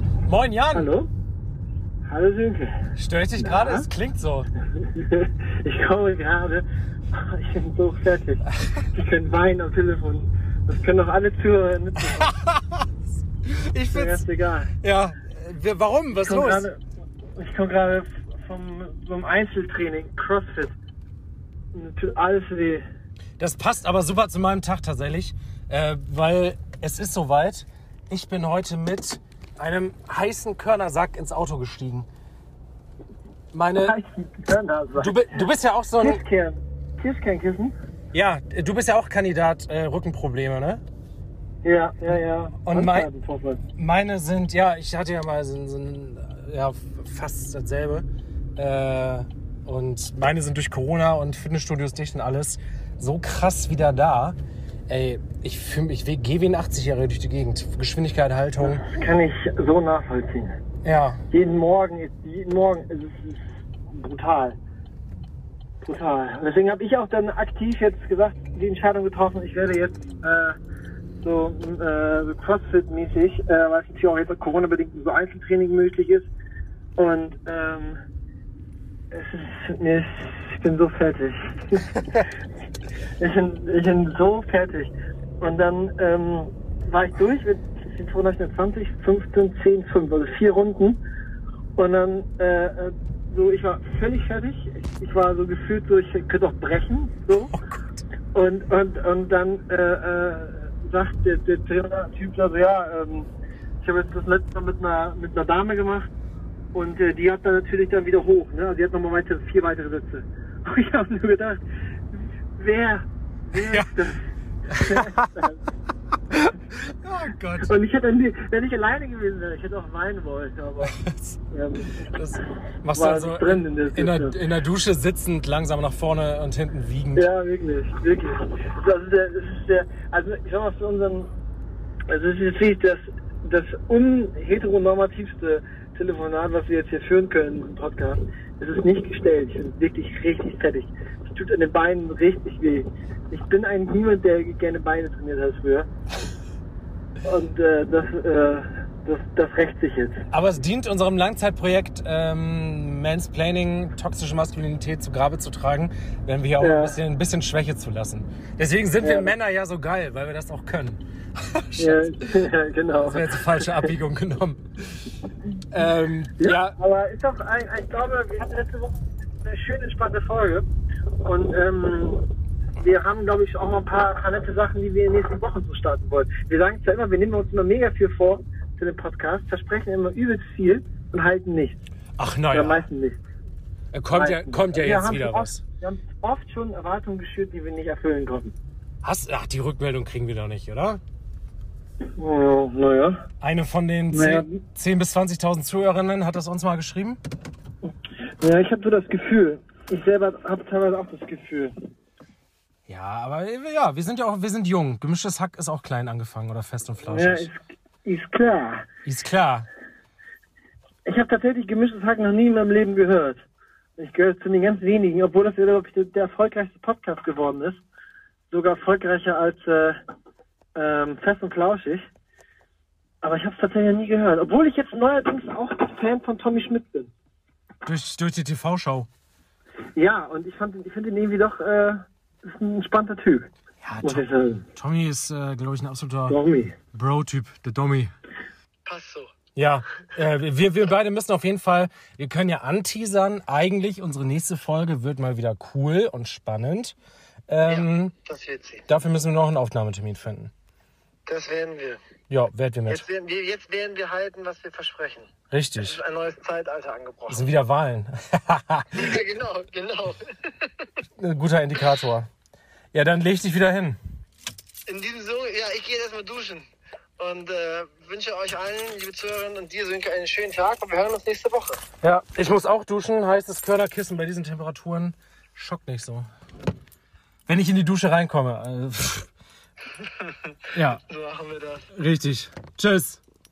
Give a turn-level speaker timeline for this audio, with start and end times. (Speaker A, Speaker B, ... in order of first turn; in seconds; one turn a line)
Speaker A: 0.3-0.9
Speaker B: 0.7-1.1
Speaker B: 2.1-2.8
Speaker A: 3.0-4.5
Speaker B: 3.4-3.9
Speaker B: 4.8-12.3
Speaker A: 12.2-12.9
Speaker A: 13.4-14.2
Speaker B: 13.9-14.7
Speaker A: 14.8-16.7
Speaker B: 16.1-16.8
Speaker B: 17.4-20.7
Speaker B: 21.7-22.8
Speaker A: 23.4-32.1
Speaker A: 33.5-34.0
Speaker B: 33.8-35.2
Speaker A: 35.0-36.2
Speaker B: 36.0-37.8
Speaker A: 38.1-40.8
Speaker B: 41.6-43.6
Speaker A: 42.6-43.1
Speaker A: 43.8-48.0
Speaker A: 48.6-54.4
Speaker A: 54.9-58.8
Speaker B: 58.6-60.5
Speaker A: 60.8-61.2
Speaker B: 61.3-64.6
Speaker B: 65.8-70.5
Speaker B: 71.2-76.3
Speaker B: 77.0-78.0
Speaker B: 79.1-81.9
Speaker B: 83.2-91.0
Speaker B: 91.8-97.5
Speaker B: 98.3-103.3
Speaker B: 103.8-106.1
Speaker B: 106.7-111.6
Speaker B: 112.1-115.6
Speaker A: 113.5-113.9
Speaker A: 114.7-115.3
Speaker A: 116.3-117.7
Speaker B: 117.6-121.0
Speaker A: 120.8-121.4
Speaker B: 121.5-122.1
Speaker A: 122.0-127.3
Speaker B: 122.9-124.3
Speaker B: 127.1-131.3
Speaker B: 132.1-145.9
Speaker B: 147.2-150.2
Speaker A: 150.3-162.1
Speaker B: 156.6-156.9
Speaker B: 159.0-159.3
Speaker B: 161.8-163.9
Speaker A: 163.1-165.0
Speaker A: 165.7-166.7
Speaker B: 166.4-170.6
Speaker B: 171.2-172.2
Speaker B: 172.8-181.8
Speaker A: 182.2-182.8
Speaker B: 182.5-183.2
Speaker A: 183.9-185.6
Speaker B: 184.1-188.5
Speaker A: 189.0-191.0
Speaker B: 192.2-193.2
Speaker A: 193.4-197.2
Speaker B: 194.1-194.6
Speaker B: 197.8-201.7
Speaker A: 202.9-207.5
Speaker B: 207.0-208.9
Speaker A: 209.1-209.7
Speaker B: 211.1-213.4
Speaker B: 214.0-217.8
Speaker B: 218.5-220.0
Speaker B: 220.7-222.1
Speaker B: 223.2-227.1
Speaker A: 227.8-229.1
Speaker B: 229.9-233.5
Speaker A: 233.8-234.2
Speaker B: 234.0-234.7
Speaker A: 234.8-236.3
Speaker B: 236.3-236.8
Speaker A: 236.9-238.1
Speaker B: 238.8-239.3
Speaker A: 239.6-246.9
Speaker A: 247.5-248.1
Speaker B: 247.7-248.8
Speaker A: 248.9-250.5
Speaker B: 251.3-252.0
Speaker A: 252.3-253.0
Speaker B: 252.9-257.5
Speaker A: 255.5-256.0
Speaker A: 257.3-259.1
Speaker B: 258.9-260.7
Speaker A: 261.2-262.3
Speaker A: 262.9-264.0
Speaker B: 264.9-266.7
Speaker B: 267.2-271.8
Speaker A: 272.0-276.2
Speaker A: 277.5-279.3
Speaker B: 279.9-281.9
Speaker A: 280.7-281.0
Speaker A: 281.9-283.2